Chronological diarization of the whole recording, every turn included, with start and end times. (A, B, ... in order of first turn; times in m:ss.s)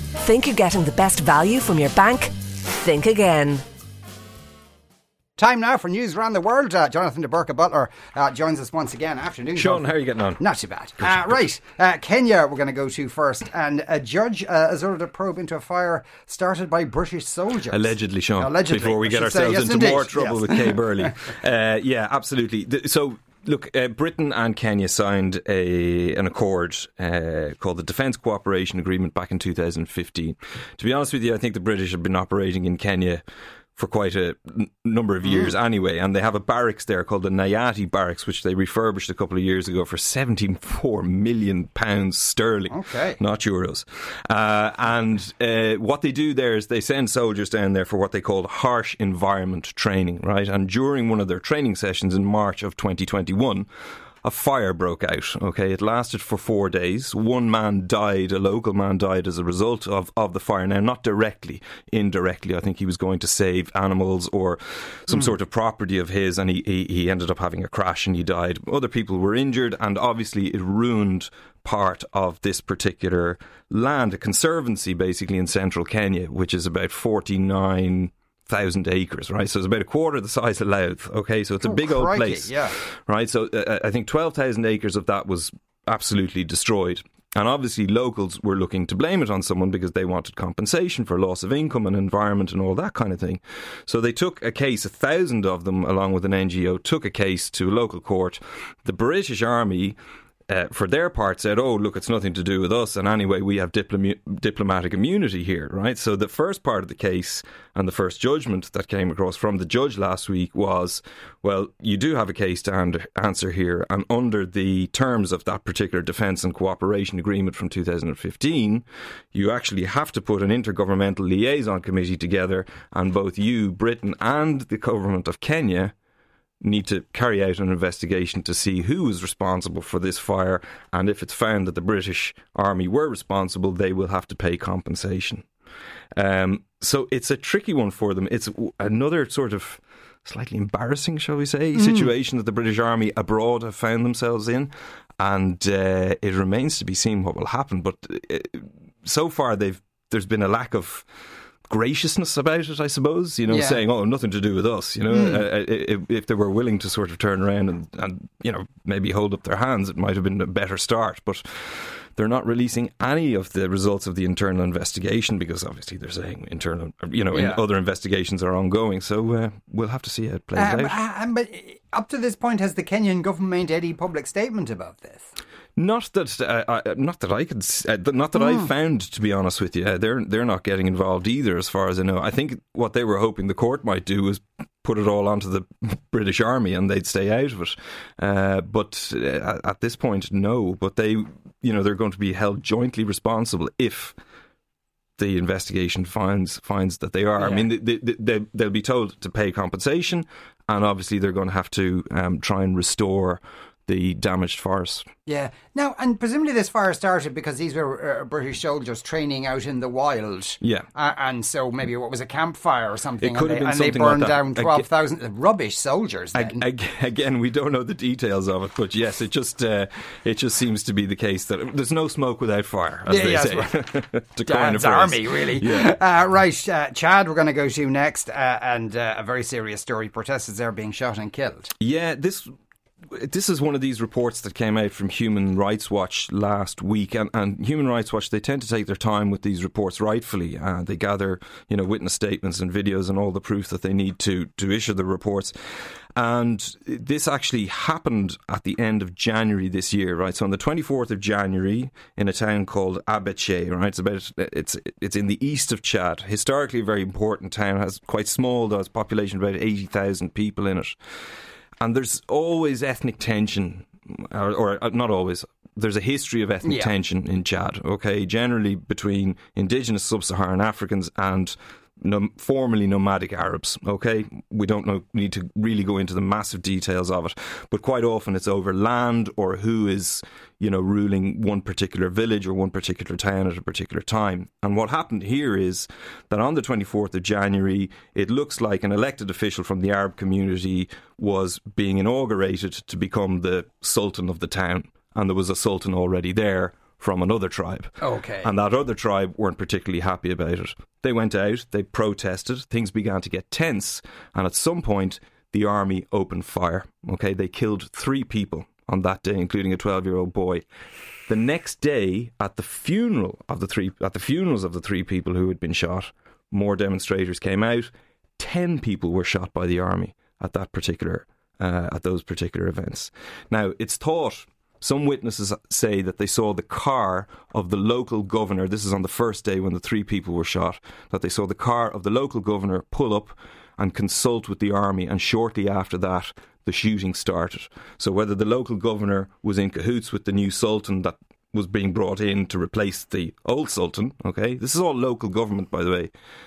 0:00.2-0:03.6 A
0:05.4-0:21.2 B
0:09.5-0:10.4 C
0:11.0-0:11.4 C
0:17.7-0:33.2 C
0:33.8-0:53.6 C
0:35.2-0:35.5 B
0:42.7-0:43.2 B
0:54.2-1:40.0 C
1:21.6-1:22.7 B
1:40.5-2:05.9 C
2:06.6-2:15.5 C
2:16.2-2:31.0 C
2:21.8-2:22.1 B
2:31.7-2:51.0 C
2:33.5-2:33.8 B
2:35.1-2:35.4 B
2:47.3-2:47.6 B
2:50.5-2:55.3 B
2:55.8-3:14.1 C
3:15.2-3:25.1 C
3:17.4-3:17.7 B
3:25.2-3:36.6 B
3:30.6-3:30.9 C
3:33.2-3:34.8 C
3:36.3-3:45.9 C
3:43.1-3:51.7 B
3:51.8-3:52.5 C
3:53.1-4:21.0 C
4:21.8-5:10.6 C
4:26.6-4:26.9 B
4:58.0-4:58.5 B
5:11.3-5:46.1 C